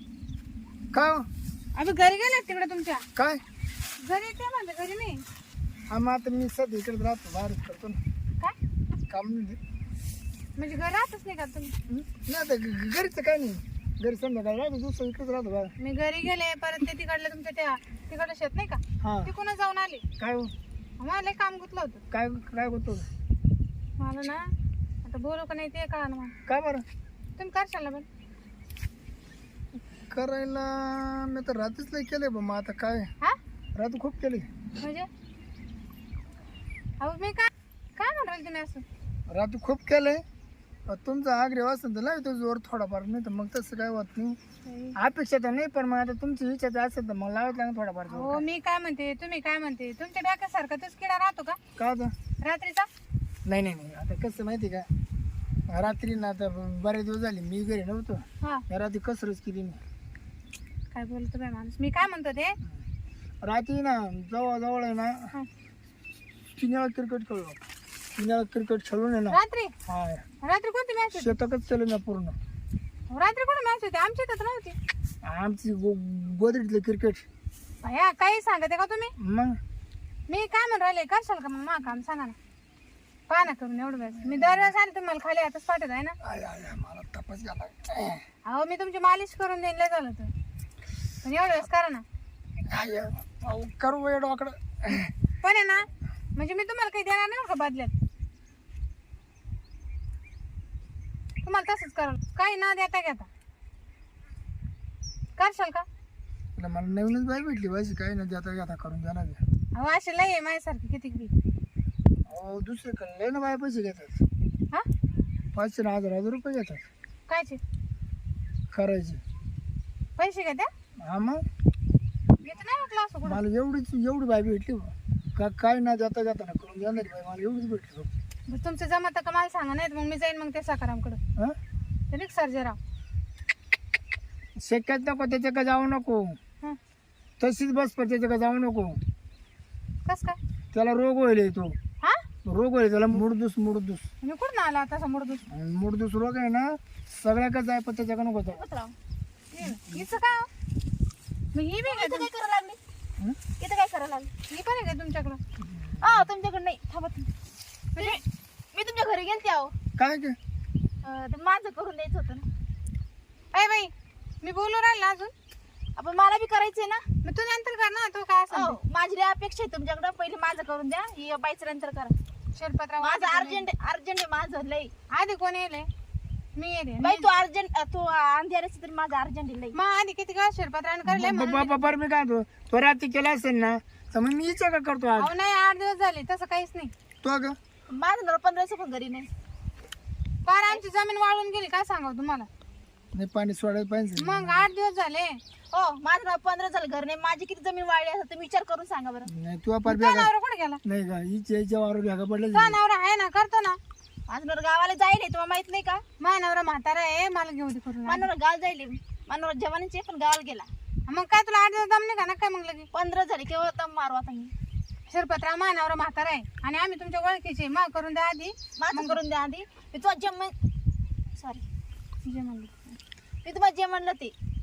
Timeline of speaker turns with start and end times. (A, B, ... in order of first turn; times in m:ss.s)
0:00.9-0:01.3 A
0:01.8-0:03.0 B
0:03.2-0:03.4 A
0:04.0-0:05.2 B
0:05.9-0:08.0 A
0:09.1-0:09.6 A
0:10.6-0:11.7 B
0:11.9-0:15.7 A
0:15.8-0:20.0 B
0:19.0-0:19.3 A
0:20.2-0:20.5 A
0:21.0-0:22.0 B
0:22.1-0:23.1 A
0:24.0-0:24.5 B
0:25.0-0:26.4 B
0:26.5-0:26.8 A
0:27.4-0:28.1 B
0:30.1-0:33.1 A
0:33.8-0:34.5 A
0:34.8-0:35.1 B
0:37.0-0:38.8 B
0:39.3-0:40.2 A
0:40.9-0:44.4 A
0:44.6-0:45.0 B
0:45.0-0:48.4 A
0:48.1-0:51.6 B
0:51.8-0:52.1 A
0:52.4-0:52.9 B
0:53.5-0:54.9 A
0:55.7-0:59.8 A
1:00.9-1:02.6 B
1:03.4-1:05.3 A
1:06.6-1:07.6 A
1:08.2-1:10.2 A
1:09.3-1:09.7 B
1:10.4-1:11.3 B
1:11.1-1:12.4 A
1:13.1-1:14.8 B
1:15.2-1:17.2 A
1:17.8-1:19.1 B
1:19.2-1:19.6 A
1:20.3-1:22.4 B
1:23.3-1:26.2 B
1:24.2-1:24.7 A
1:26.2-1:28.2 A
1:28.5-1:30.3 B
1:31.2-1:32.0 B
1:32.7-1:35.1 A
1:35.4-1:37.9 B
1:41.4-1:43.3 B
1:45.4-1:45.8 B
1:46.6-1:49.4 A
1:49.8-1:51.3 B
1:52.3-1:54.2 A
1:55.5-1:56.8 A
1:57.3-1:57.6 B
1:58.7-1:59.2 A
2:00.2-2:00.7 B
2:01.0-2:01.4 A
2:02.4-2:03.4 B
2:03.2-2:08.1 A
2:08.5-2:11.2 B
2:12.1-2:12.8 B
2:14.6-2:16.4 A
2:17.4-2:19.0 A
2:20.0-2:20.4 B
2:20.7-2:21.8 A
2:22.4-2:24.0 A
2:24.2-2:25.4 B
2:25.5-2:28.6 A
2:28.5-2:29.0 C
2:29.5-2:30.5 B
2:31.5-2:32.3 B
2:31.9-2:32.8 C
2:33.6-2:34.3 C
2:34.5-2:35.4 B
2:35.6-2:36.2 A
2:36.0-2:37.3 C
2:38.7-2:39.7 C
2:40.0-2:40.4 A
2:41.0-2:42.5 C
2:43.5-2:43.9 B
2:44.4-2:45.3 B
2:46.0-2:47.0 C
2:47.2-2:48.8 B
2:48.5-2:52.1 C
2:52.6-2:53.7 B
2:53.0-2:54.9 C
2:55.1-2:55.9 B
2:56.6-2:57.3 B
2:57.0-2:59.8 C
2:59.7-3:01.8 B
3:01.0-3:05.3 A
3:05.2-3:06.9 B
3:07.2-3:07.6 A
3:07.9-3:09.3 C
3:10.4-3:12.5 B
3:13.1-3:14.7 A
3:14.2-3:15.4 B
3:15.7-3:19.3 C
3:19.3-3:20.3 A
3:19.9-3:20.8 B
3:20.8-3:22.8 A
3:22.5-3:23.8 B
3:24.3-3:26.0 C
3:26.2-3:28.3 B
3:28.1-3:30.7 C
3:31.1-3:32.9 B
3:32.9-3:34.5 C
3:35.1-3:39.2 B
3:38.8-3:40.5 C
3:41.4-3:41.6 C
3:42.2-3:43.0 B
3:43.4-3:44.3 C